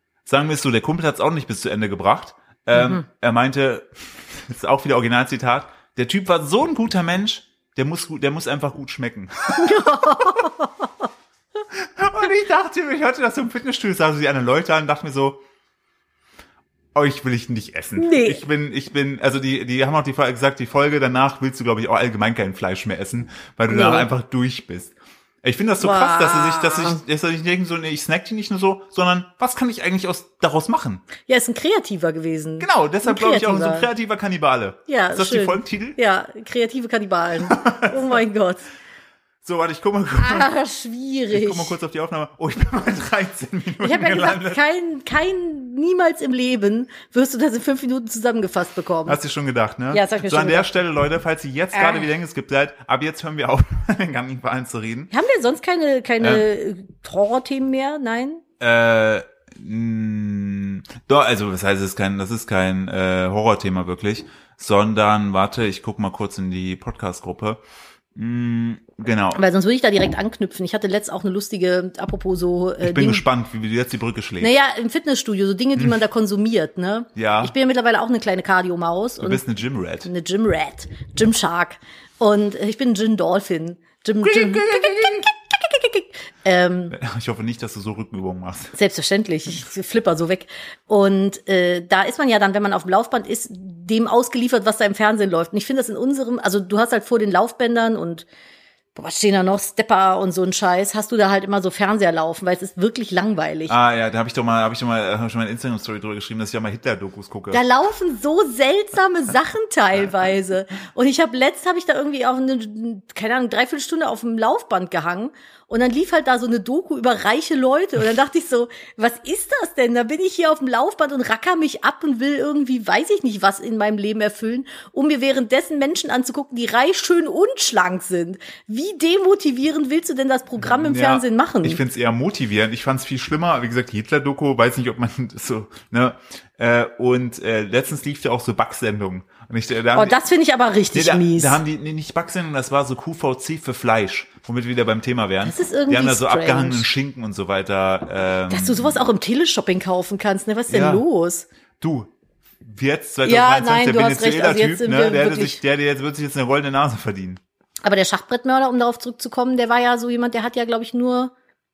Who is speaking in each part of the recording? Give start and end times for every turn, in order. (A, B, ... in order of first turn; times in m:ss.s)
0:00.3-0:10.5 A
0:02.7-0:03.0 B
0:09.6-0:11.1 B
0:11.8-0:15.4 A
0:17.0-0:31.0 A
0:18.0-0:18.4 B
0:23.7-0:24.1 B
0:25.8-0:27.0 B
0:31.3-0:33.9 B
0:32.6-0:36.0 A
0:34.9-0:38.6 B
0:37.5-0:38.0 A
0:39.4-0:40.5 A
0:40.2-0:41.8 B
0:41.3-0:44.6 A
0:43.8-0:49.2 B
0:49.1-0:55.1 A
0:49.9-0:50.7 B
0:51.7-0:52.1 B
0:55.1-0:58.4 B
0:56.2-0:56.5 A
0:58.6-1:07.6 A
1:08.2-1:09.4 A
1:09.4-1:13.2 B
1:12.8-1:14.5 A
1:14.4-1:19.4 B
1:17.2-1:17.5 A
1:19.2-1:20.1 A
1:20.0-1:27.0 B
1:24.2-1:25.3 A
1:26.9-1:28.8 A
1:28.7-1:38.3 B
1:39.0-1:43.8 B
1:43.7-1:47.6 A
1:47.5-2:11.8 B
2:10.6-2:20.2 A
2:19.9-2:21.6 B
2:20.9-2:29.0 A
2:25.4-2:26.9 B
2:28.5-2:31.5 B
2:30.7-2:31.0 A
2:31.8-2:32.1 A
2:32.6-2:37.4 A
2:33.2-2:35.6 B
2:37.8-2:41.3 B